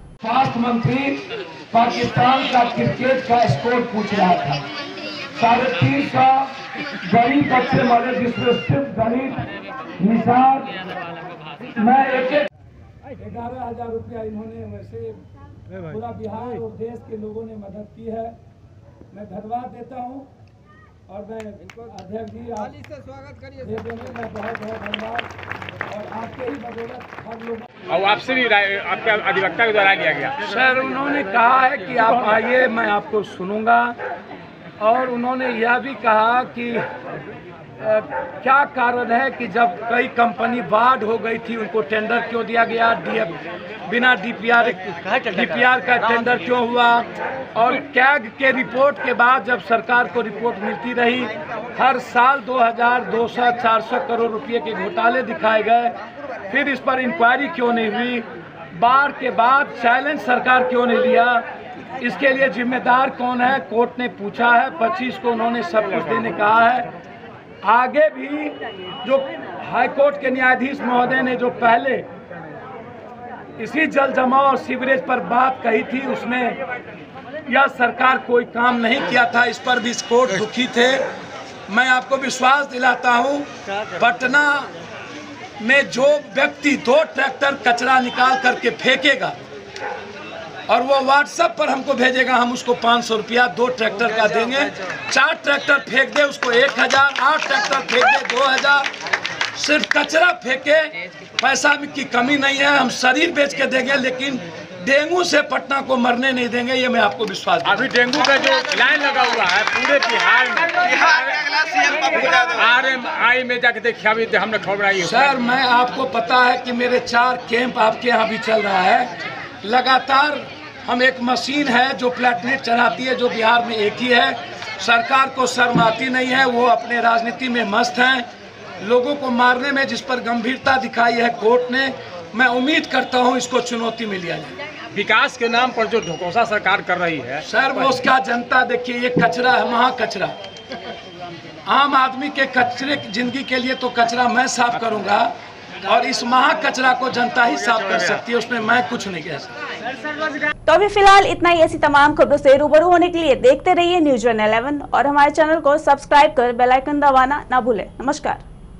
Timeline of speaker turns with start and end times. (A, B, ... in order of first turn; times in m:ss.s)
0:00.2-0:04.6 A
0:05.4-0:06.5 A
0:07.0-0:09.5 A
0:10.0-0:10.8 A
0:11.8-0:12.5 A
0:13.2-0:15.2 A
0:15.8-0:18.4 A
0:19.1-0:20.3 A
0:21.1-0:22.8 A
0:23.5-0:25.3 A
0:25.9-0:27.7 A
0:27.9-0:30.4 B
0:30.4-0:34.0 A
0:34.8-0:36.8 A
0:37.8-0:43.4 A
0:43.9-0:56.0 A
0:56.5-1:01.4 A
1:02.0-1:06.9 A
1:07.6-1:12.0 A
1:13.6-1:16.6 A
1:17.5-1:21.0 A
1:21.7-1:24.7 A
1:25.6-1:29.3 A
1:30.7-1:38.8 A
1:39.5-1:47.9 A
1:47.6-1:55.3 B
1:55.0-1:59.1 A
1:59.6-2:08.2 A
2:08.8-2:14.5 A
2:14.9-2:18.0 B
2:17.4-2:20.3 A
2:21.7-2:25.3 A
2:25.8-2:29.5 A
2:30.7-2:38.4 C